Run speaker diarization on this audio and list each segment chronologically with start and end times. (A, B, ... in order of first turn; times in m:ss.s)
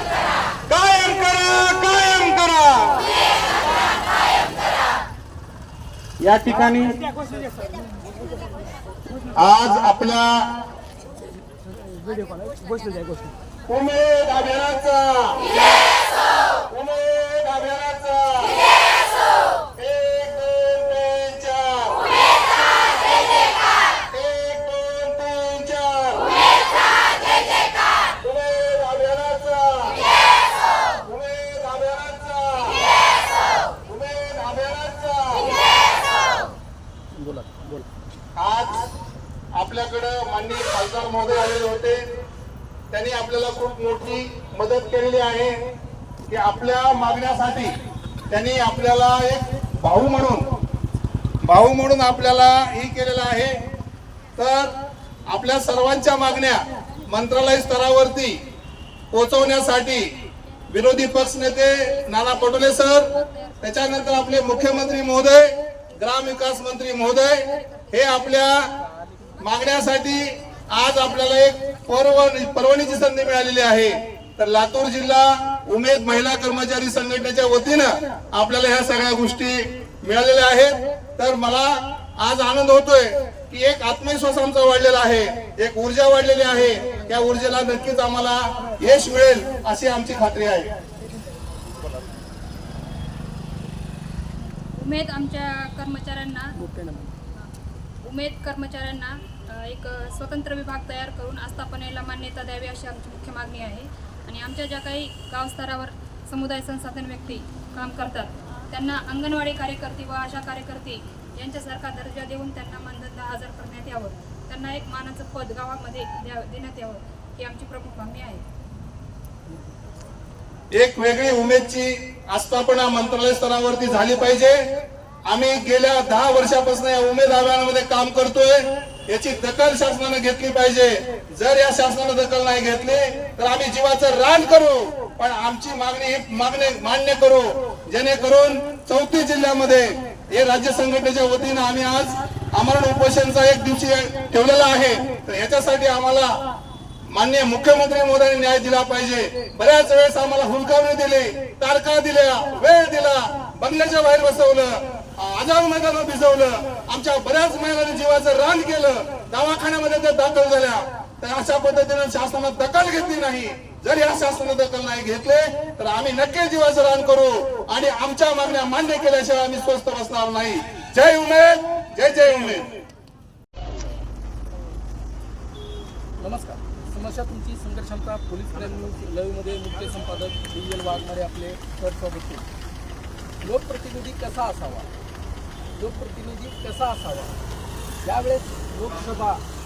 0:00.7-0:03.0 A
0:06.2-0:07.1 A
0:09.3-0:10.5 A
0:13.6-0:15.5 A
0:16.7-0:18.6 A
0:19.8-0:22.1 A
0:24.1-0:26.3 A
0:28.2-0:30.0 A
0:31.0-0:32.9 A
0:33.8-0:35.6 A
0:37.2-0:37.9 B
0:38.4-0:38.9 A
0:39.5-0:42.0 A
0:42.9-0:45.5 A
0:46.3-0:47.7 A
0:48.3-0:50.5 A
0:51.4-0:53.6 A
0:54.4-0:54.7 A
0:55.3-0:58.4 A
0:59.1-1:00.1 A
1:00.7-1:08.7 A
1:09.4-1:30.7 A
1:34.5-1:36.6 C
1:36.5-1:37.1 B
1:38.0-1:58.4 C
2:00.7-2:04.6 A
2:05.3-2:26.3 A
2:27.1-2:52.7 A
2:56.2-3:02.5 B
3:03.4-3:04.9 B
3:05.8-3:07.4 B
3:08.0-3:09.4 B